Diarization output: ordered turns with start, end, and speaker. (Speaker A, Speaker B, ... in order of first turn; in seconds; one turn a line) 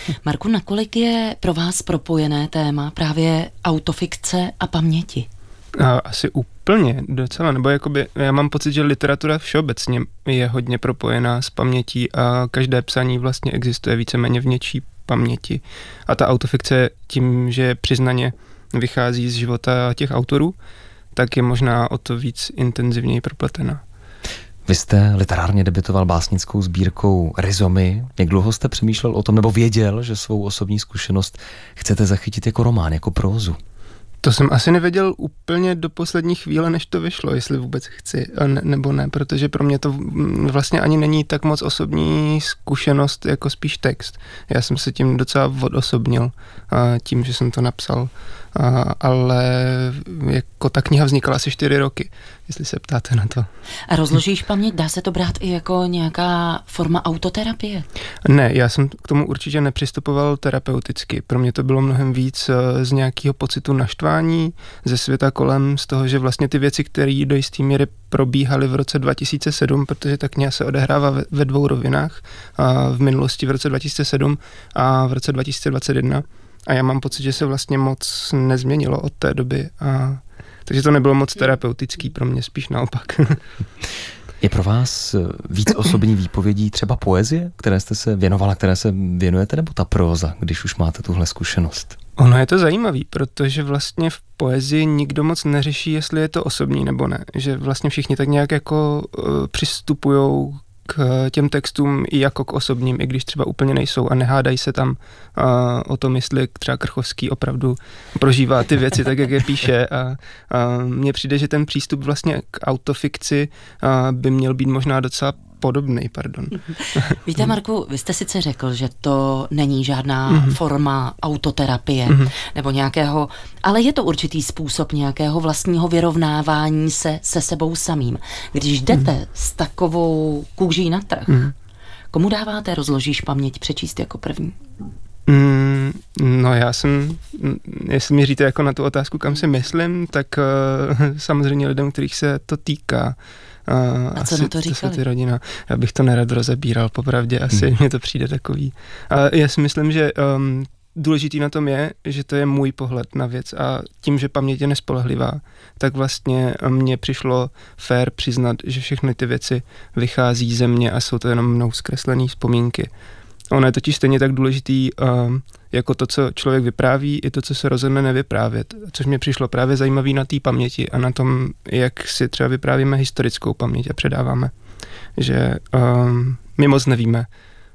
Speaker A: 0.2-5.3
Speaker B: 5.8-20.6
Speaker B: 21.1-23.8
Speaker C: 24.7-33.6
Speaker B: 34.2-53.5
Speaker A: 53.9-57.9
Speaker B: 58.2-83.4
Speaker C: 84.4-91.9
Speaker B: 92.2-117.5
Speaker A: 117.0-131.5
Speaker B: 120.3-120.6
Speaker A: 132.1-134.6
Speaker B: 135.3-162.9
Speaker A: 144.2-145.0
Speaker B: 163.5-174.5
Speaker B: 175.2-177.3